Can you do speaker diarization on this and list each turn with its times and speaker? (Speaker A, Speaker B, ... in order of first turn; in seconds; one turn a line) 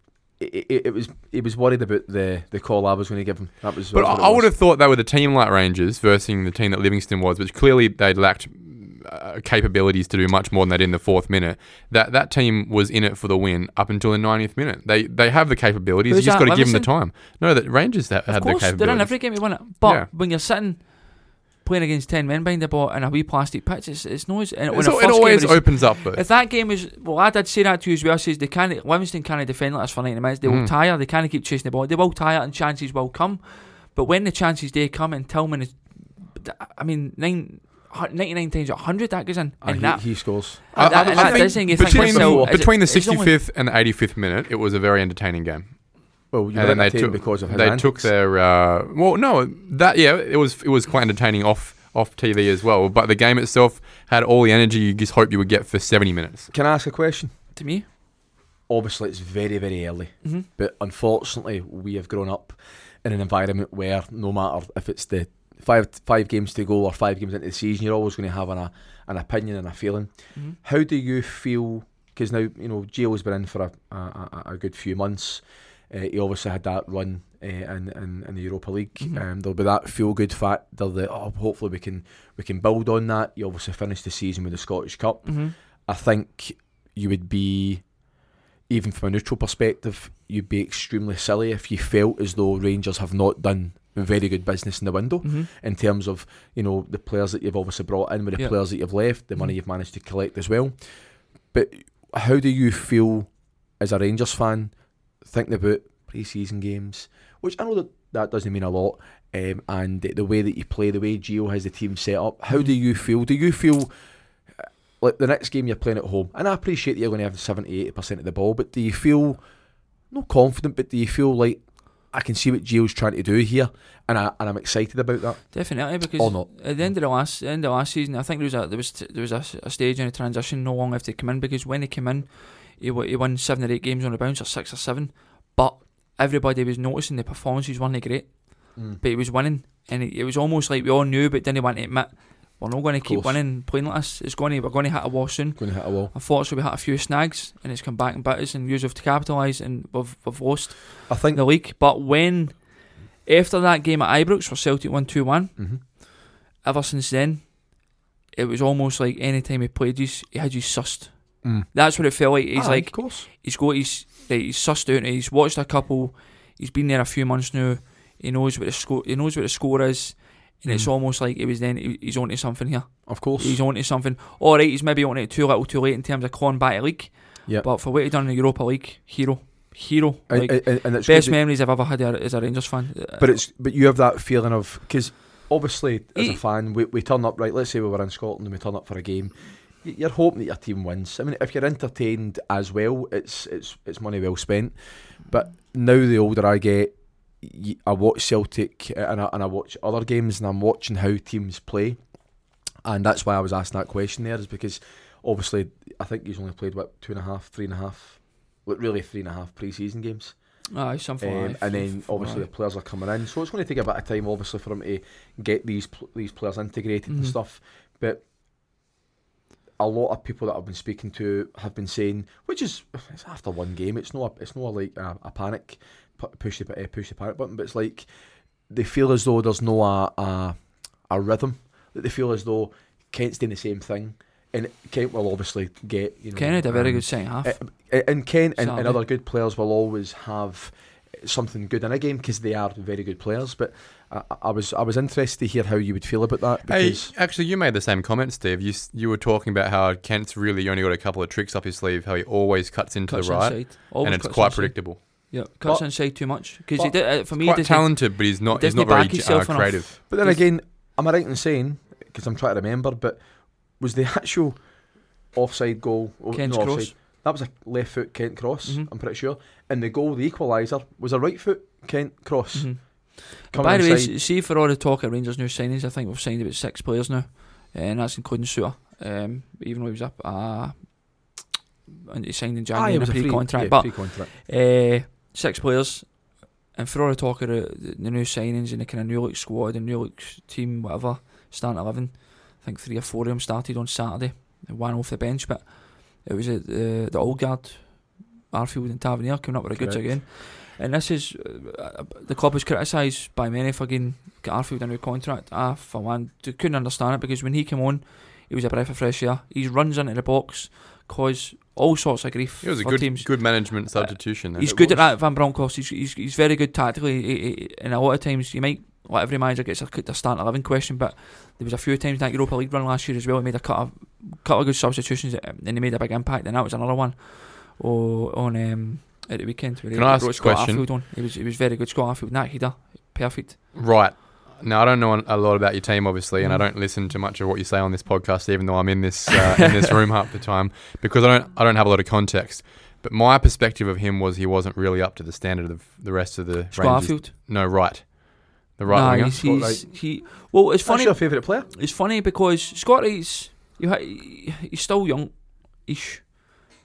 Speaker A: 0.4-4.5
Speaker B: 3.9-20.1
Speaker C: 16.1-16.9
Speaker C: 18.3-43.3
Speaker B: 24.7-26.2
Speaker B: 30.4-30.7
Speaker A: 39.6-42.6
Speaker B: 40.7-45.9
Speaker A: 46.3-48.1
Speaker B: 46.5-56.5
Speaker A: 56.5-57.3
Speaker C: 57.5-57.9
Speaker A: 58.7-70.1
Speaker A: 70.6-87.9
Speaker C: 85.2-85.5
Speaker A: 88.7-100.7
Speaker C: 95.2-95.5
Speaker A: 101.5-104.7
Speaker A: 105.2-113.9
Speaker A: 115.0-119.4
Speaker A: 120.1-126.9
Speaker C: 125.5-152.7
Speaker A: 138.8-139.0
Speaker A: 143.0-143.4
Speaker A: 145.6-146.1
Speaker A: 151.1-151.4
Speaker C: 153.2-156.0
Speaker A: 155.6-155.8
Speaker C: 156.6-157.7
Speaker C: 158.3-183.3
Speaker A: 161.4-161.8
Speaker A: 162.5-163.3
Speaker A: 173.1-173.6
Speaker A: 180.3-181.4
Speaker A: 183.2-194.7
Speaker C: 186.1-186.4
Speaker A: 195.3-202.0
Speaker A: 202.8-210.3
Speaker C: 210.7-212.5
Speaker A: 211.2-218.2
Speaker C: 217.1-217.3
Speaker A: 219.8-228.1
Speaker A: 228.7-247.1
Speaker C: 236.3-237.6
Speaker C: 238.6-239.0
Speaker B: 246.7-255.0
Speaker C: 253.1-260.4
Speaker B: 257.2-259.9
Speaker A: 260.1-263.2
Speaker A: 263.7-264.6
Speaker A: 265.3-274.1
Speaker C: 266.3-266.9
Speaker C: 272.5-280.9
Speaker C: 282.1-333.6
Speaker A: 282.7-284.3
Speaker A: 299.7-300.0
Speaker B: 312.6-314.9
Speaker A: 314.6-315.0
Speaker B: 329.9-330.9
Speaker B: 333.7-349.4
Speaker C: 336.4-336.6
Speaker C: 346.7-347.3
Speaker C: 348.9-356.6
Speaker A: 349.3-350.1
Speaker A: 350.8-351.7